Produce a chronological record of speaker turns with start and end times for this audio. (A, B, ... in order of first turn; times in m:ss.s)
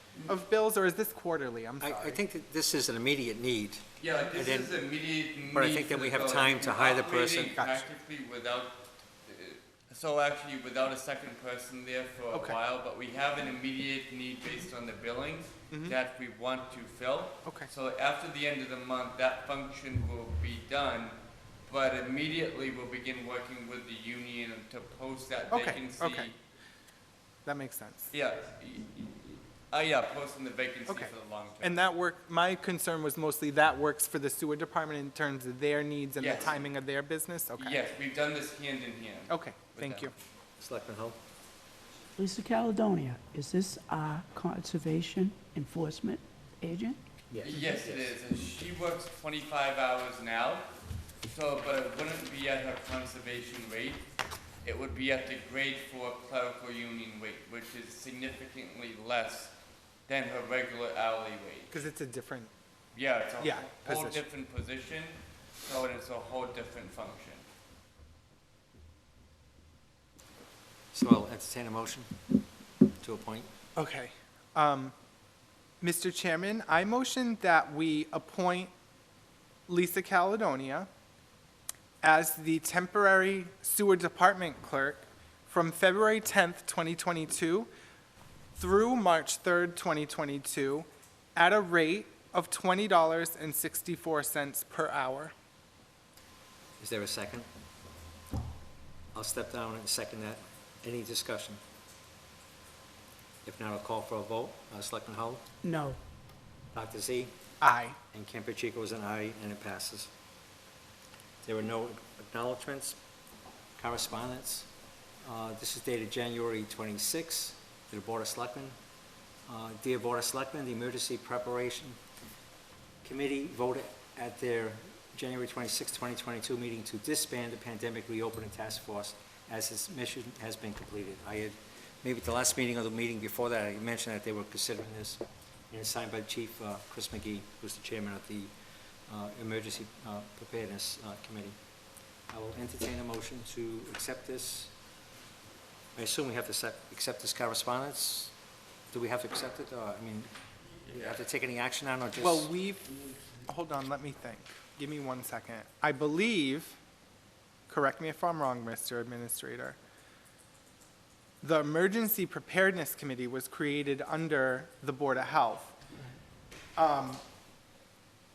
0:00.3-0:02.2 A
0:01.8-0:04.7 B
0:04.0-0:08.8 C
0:05.5-0:07.5 B
0:07.6-0:07.9 A
0:09.3-0:21.2 C
0:15.7-0:16.0 A
0:17.4-0:17.7 A
0:21.7-0:26.4 C
0:25.5-0:26.3 A
0:27.4-0:28.1 A
0:28.1-0:31.8 C
0:30.9-0:37.8 A
0:36.2-0:36.6 C
0:37.6-0:40.1 C
0:39.3-0:40.1 A
0:40.6-0:41.2 B
0:42.2-0:47.0 D
0:47.3-0:48.1 B
0:47.4-0:50.7 C
0:51.3-0:54.0 C
0:54.6-0:59.5 C
1:00.1-1:01.7 C
1:01.7-1:02.5 A
1:02.9-1:07.4 C
1:03.4-1:04.2 A
1:10.9-1:12.4 B
1:13.0-1:13.5 B
1:13.8-1:14.9 A
1:15.8-1:18.7 A
1:19.7-1:20.9 A
1:22.0-1:27.7 A
1:28.6-1:35.3 A
1:36.8-1:37.5 B
1:39.1-1:41.6 B
1:43.4-1:45.4 B
1:45.6-1:46.0 D
1:46.7-1:47.3 B
1:47.6-1:48.0 A
1:48.1-1:50.1 B
1:51.4-1:53.0 B
1:53.8-1:54.7 B
1:55.3-1:58.8 B
1:59.5-2:02.0 B
2:03.0-2:18.5 B
2:19.1-2:21.6 B
2:22.3-2:24.7 B
2:26.0-2:28.3 B
2:28.9-2:30.3 B
2:30.9-2:31.2 C
2:30.9-2:32.5 B
2:32.2-2:32.9 A
2:33.5-2:36.8 A
2:37.7-2:39.8 A
2:41.4-2:45.8 A
2:46.8-2:47.2 A